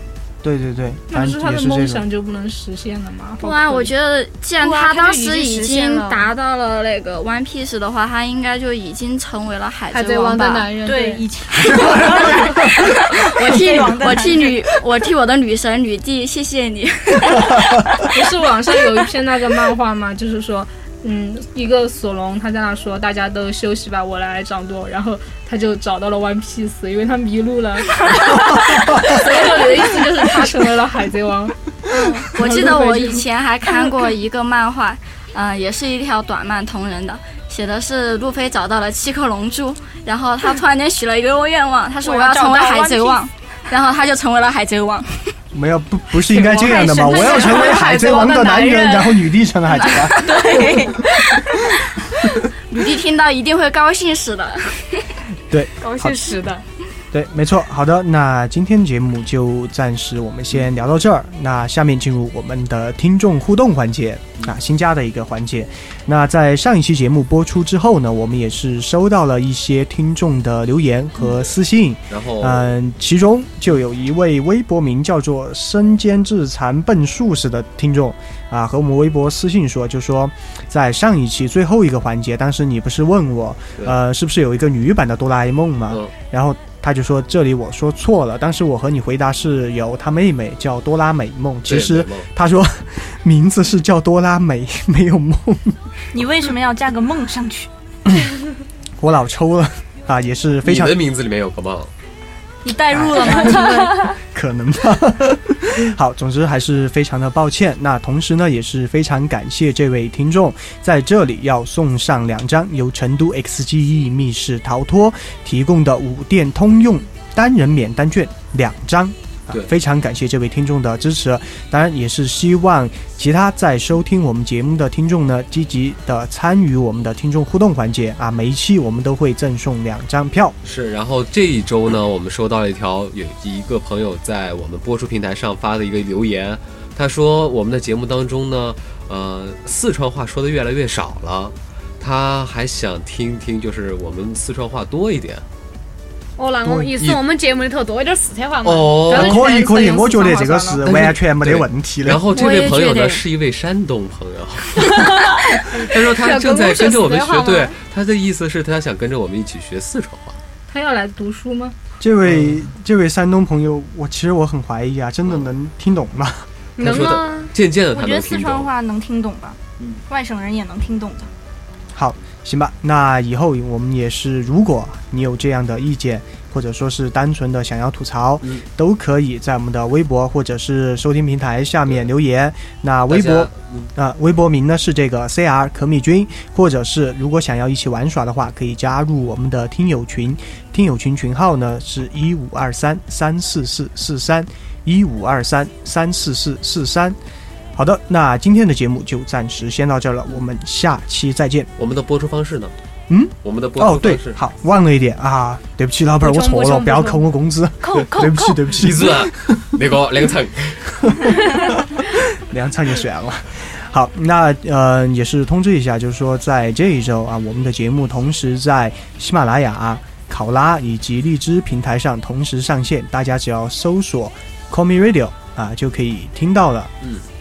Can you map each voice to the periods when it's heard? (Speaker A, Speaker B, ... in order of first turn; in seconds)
Speaker A: 0.4-2.0, 11.7-12.6, 45.5-50.2, 55.5-56.2, 57.1-95.8, 99.0-101.0, 102.9-130.6, 146.6-147.1, 149.1-152.2, 162.0-166.5, 171.9-197.2, 197.8-201.7, 203.1-209.6, 211.1-226.9
Speaker B: 1.1-3.9, 18.1-31.8, 32.4-33.2, 160.7-161.8
Speaker C: 3.4-10.7, 11.9-18.1, 31.9-45.3, 49.7-51.8, 52.7-55.1, 152.3-153.2
Speaker D: 4.6-6.3, 9.9-11.2, 46.3-49.3, 55.8-56.6, 146.4-150.8, 154.8-157.8, 166.8-167.5, 206.2-207.3
Speaker E: 10.8-14.8, 28.2-28.6, 42.0-43.2, 46.5-47.9, 50.2-51.0, 96.1-97.7, 102.7-104.1, 167.9-171.3, 207.8-208.6
Speaker F: 72.1-72.7, 91.7-92.3, 100.7-101.9, 130.6-145.4, 148.6-149.5, 150.8-160.4, 162.3-162.6, 166.8-168.7, 183.1-183.9, 201.8-202.7, 203.4-204.4, 208.7-211.1